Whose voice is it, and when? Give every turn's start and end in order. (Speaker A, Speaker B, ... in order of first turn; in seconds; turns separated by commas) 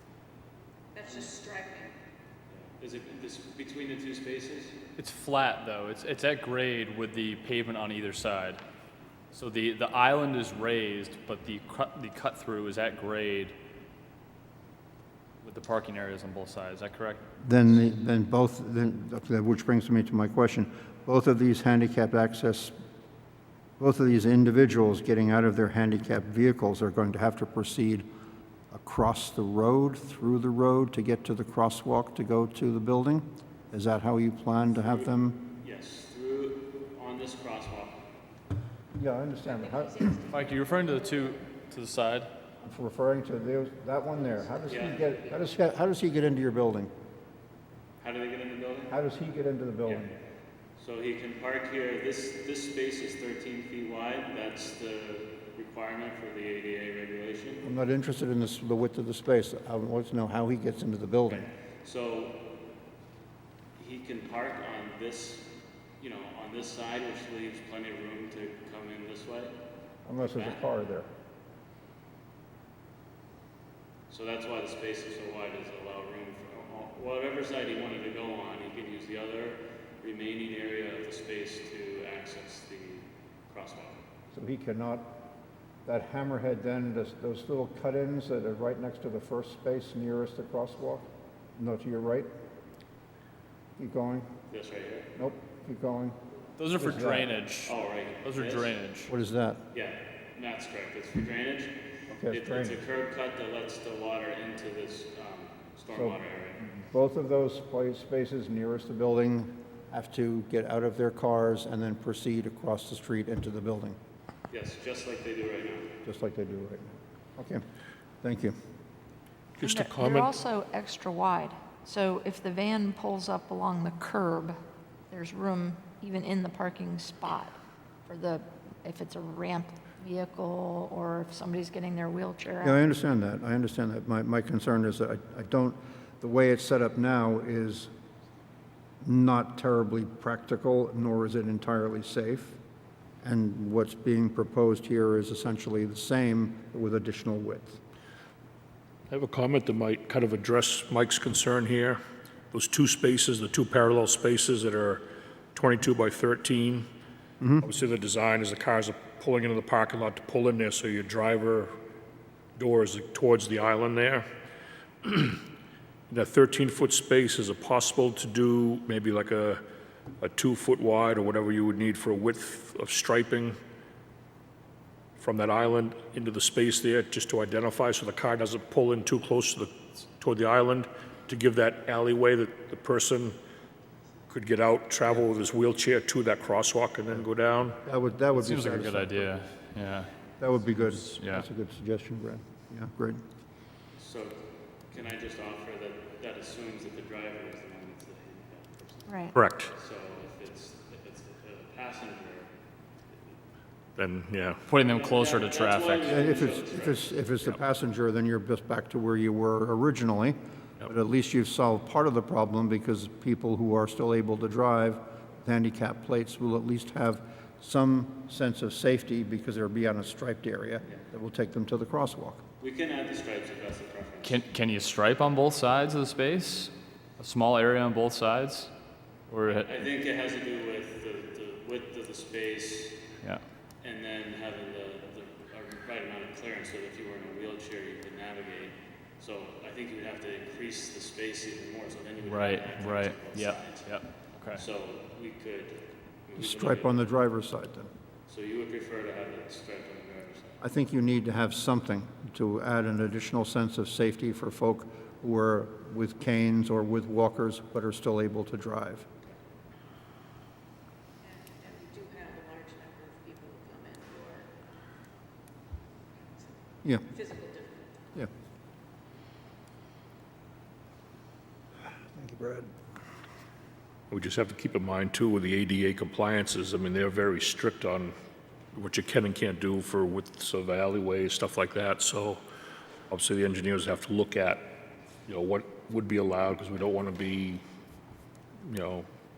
Speaker A: 0.9-1.9, Speaker B: 1.0-1.3, Speaker B: 2.5-4.8, Speaker C: 5.0-8.6, Speaker C: 9.3-13.5, Speaker C: 15.4-17.2, Speaker D: 17.4-22.8, Speaker D: 23.8-28.1, Speaker D: 28.7-35.4, Speaker B: 34.8-38.0, Speaker D: 38.9-40.3, Speaker C: 40.3-42.3, Speaker D: 42.6-46.9, Speaker B: 44.7-45.1, Speaker B: 48.0-48.9, Speaker D: 48.9-50.1, Speaker B: 50.8-57.7, Speaker D: 57.6-61.5, Speaker B: 61.8-62.4, Speaker B: 63.8-65.5, Speaker B: 66.0-69.5, Speaker D: 70.0-71.1, Speaker B: 70.2-70.6, Speaker B: 74.1-84.0, Speaker D: 84.3-85.2, Speaker D: 85.8-92.3, Speaker D: 93.8-94.3, Speaker B: 94.5-95.1, Speaker D: 95.2-96.2, Speaker C: 96.6-99.1, Speaker D: 96.8-97.3, Speaker B: 97.6-98.8, Speaker D: 99.1-99.6, Speaker B: 99.7-101.8, Speaker D: 102.1-102.8, Speaker B: 102.3-106.6, Speaker D: 105.9-106.2, Speaker D: 106.7-114.0, Speaker B: 114.5-116.0, Speaker D: 116.0-117.6, Speaker D: 118.2-118.5, Speaker E: 119.6-120.4, Speaker F: 119.6-124.6, Speaker F: 125.1-127.5, Speaker F: 128.1-132.8, Speaker D: 132.6-137.9, Speaker D: 139.0-142.6, Speaker D: 143.2-147.8, Speaker E: 149.1-152.0, Speaker E: 152.5-156.9, Speaker D: 157.4-157.7, Speaker E: 157.6-161.7, Speaker E: 162.6-164.2, Speaker E: 165.0-165.4, Speaker E: 166.1-169.6, Speaker E: 170.2-173.6, Speaker E: 175.2-183.3, Speaker E: 184.3-187.8, Speaker D: 187.8-189.3, Speaker C: 188.3-190.1, Speaker D: 190.4-193.2, Speaker C: 190.7-191.5, Speaker B: 194.0-194.4, Speaker B: 194.9-202.5, Speaker F: 199.1-199.3, Speaker E: 199.3-199.7, Speaker E: 204.0-204.6, Speaker C: 204.7-206.4, Speaker B: 204.8-207.1, Speaker D: 206.1-222.4, Speaker B: 222.6-224.4, Speaker C: 224.2-228.7, Speaker C: 229.3-229.7, Speaker B: 229.6-233.0, Speaker B: 233.8-247.1, Speaker C: 242.2-244.6, Speaker D: 246.4-247.9, Speaker B: 248.3-250.6, Speaker D: 250.6-259.1, Speaker A: 261.3-264.5, Speaker A: 267.1-268.1, Speaker D: 272.0-272.7, Speaker E: 274.1-278.1, Speaker E: 278.7-282.4, Speaker E: 283.1-287.6, Speaker E: 288.6-289.1